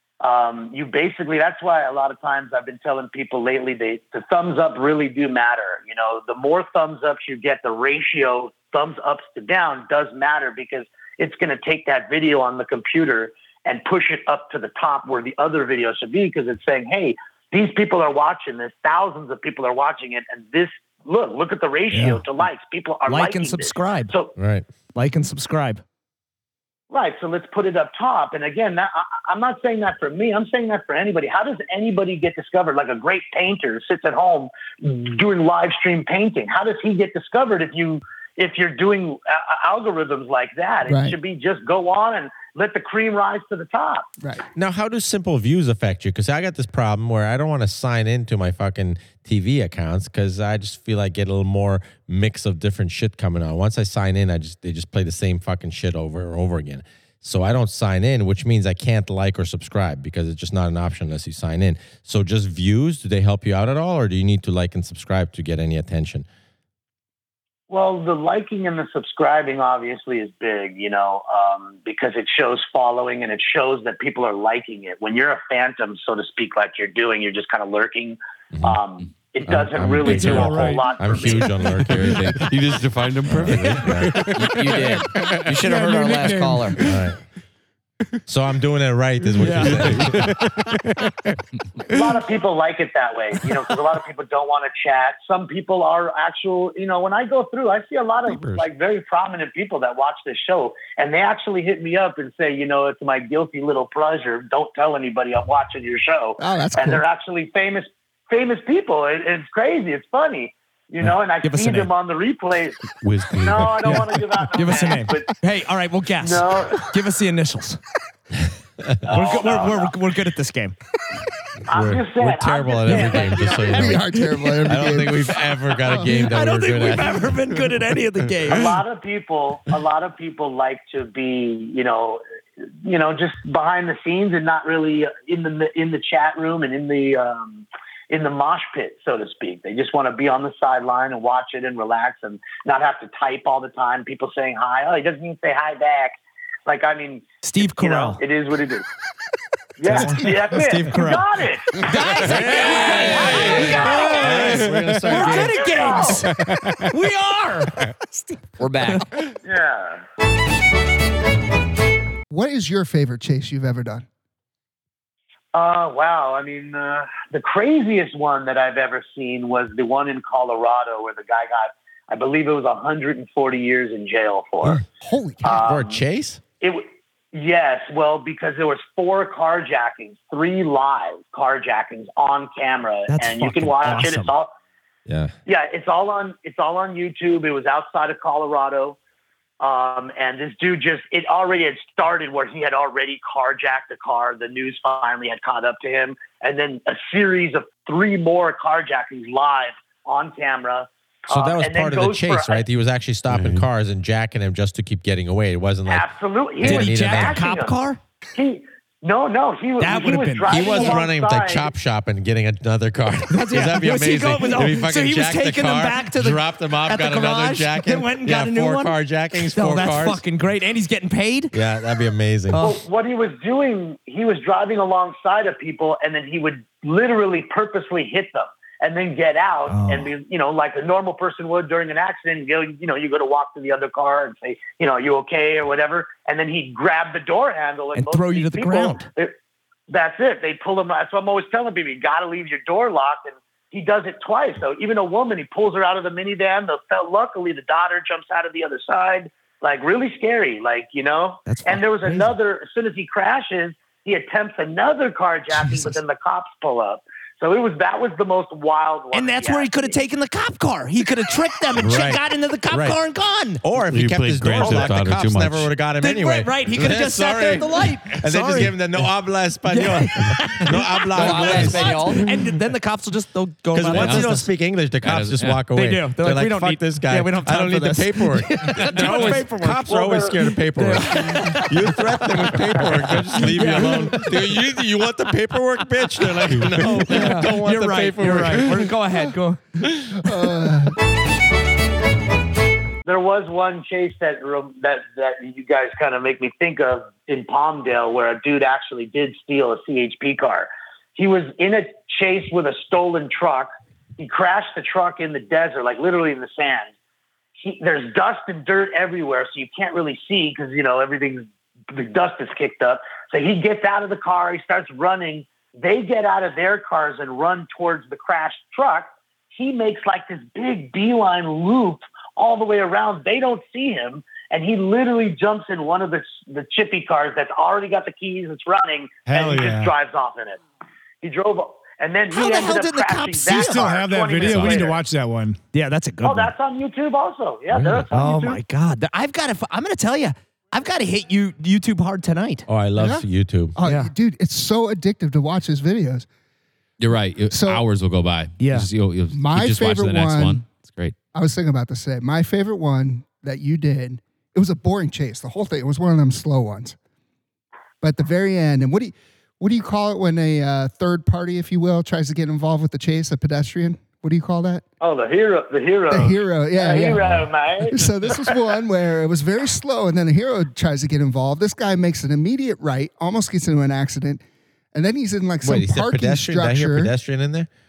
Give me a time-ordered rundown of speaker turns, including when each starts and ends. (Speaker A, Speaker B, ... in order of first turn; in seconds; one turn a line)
Speaker A: 0.2-24.3
Speaker B: 21.9-22.2
Speaker B: 23.1-24.1
Speaker C: 24.4-24.7
Speaker B: 24.9-25.8
Speaker A: 26.9-44.1
Speaker D: 40.9-41.1
Speaker D: 44.2-44.5
Speaker C: 44.6-66.2
Speaker A: 67.7-81.5
Speaker C: 79.5-82.5
Speaker E: 80.0-81.4
Speaker F: 81.8-85.7
Speaker G: 82.0-82.5
Speaker C: 83.3-84.3
Speaker H: 84.2-86.9
Speaker E: 85.6-86.8
Speaker F: 86.8-87.0
Speaker C: 86.8-87.2
Speaker C: 88.3-90.3
Speaker B: 89.4-90.0
Speaker F: 89.4-91.1
Speaker A: 91.8-112.8
Speaker D: 106.4-107.0
Speaker B: 111.4-111.9
Speaker F: 113.0-114.4
Speaker A: 113.4-115.3
Speaker B: 113.8-117.8
Speaker A: 116.2-116.9
Speaker C: 118.8-119.1
Speaker A: 119.0-119.9
Speaker B: 119.1-120.8
Speaker A: 121.7-124.0
Speaker C: 121.7-127.4
Speaker D: 123.7-126.0
Speaker B: 125.9-128.8
Speaker A: 128.5-148.9
Speaker B: 147.4-148.2
Speaker A: 149.8-154.6
Speaker B: 149.9-157.8
Speaker C: 152.2-155.7
Speaker E: 154.6-155.1
Speaker A: 155.1-156.3
Speaker E: 156.4-156.9
Speaker H: 158.6-159.1
Speaker A: 159.4-160.0
Speaker D: 162.3-164.1
Speaker A: 165.5-174.8
Speaker D: 174.9-175.6
Speaker A: 175.4-176.0
Speaker C: 175.5-176.4
Speaker A: 176.6-184.5
Speaker B: 183.1-184.3
Speaker C: 185.1-185.3
Speaker A: 185.5-189.0
Speaker A: 189.6-202.7
Speaker C: 201.3-207.4
Speaker F: 203.3-203.7
Speaker A: 205.9-207.8
Speaker B: 206.6-208.0
Speaker A: 208.3-211.7
Speaker B: 209.8-211.0
Speaker C: 210.5-220.2
Speaker B: 213.3-221.5
Speaker C: 221.5-222.6
Speaker B: 222.5-222.8
Speaker A: 222.6-239.3
Speaker B: 229.7-230.1
Speaker B: 237.9-239.1
Speaker A: 239.9-260.0
Speaker B: 251.5-252.3
Speaker B: 255.6-256.0
Speaker B: 259.1-263.6
Speaker C: 261.8-263.0
Speaker C: 263.6-272.2
Speaker F: 263.8-265.7
Speaker B: 264.6-264.9
Speaker B: 266.0-269.1
Speaker B: 269.7-274.5
Speaker H: 271.1-272.3
Speaker C: 273.7-288.9
Speaker G: 273.9-274.3
Speaker G: 274.9-275.7
Speaker B: 275.7-284.6
Speaker A: 279.9-280.4
Speaker B: 286.2-289.6
Speaker D: 290.1-291.0
Speaker A: 293.1-306.9
Speaker A: 307.6-330.6
Speaker E: 329.3-329.9
Speaker A: 331.2-335.0
Speaker B: 332.3-333.9
Speaker E: 333.5-335.6
Speaker B: 335.7-336.5
Speaker A: 336.2-338.6
Speaker C: 337.7-338.1
Speaker B: 338.1-342.7
Speaker C: 342.7-343.8
Speaker D: 343.0-346.3
Speaker B: 343.9-344.1
Speaker G: 347.0-351.1
Speaker D: 347.5-347.8
Speaker B: 348.6-348.9
Speaker D: 349.3-350.6
Speaker D: 351.3-357.0
Speaker D: 358.0-364.8
Speaker A: 365.0-368.5
Speaker D: 366.1-377.1
Speaker C: 375.6-377.7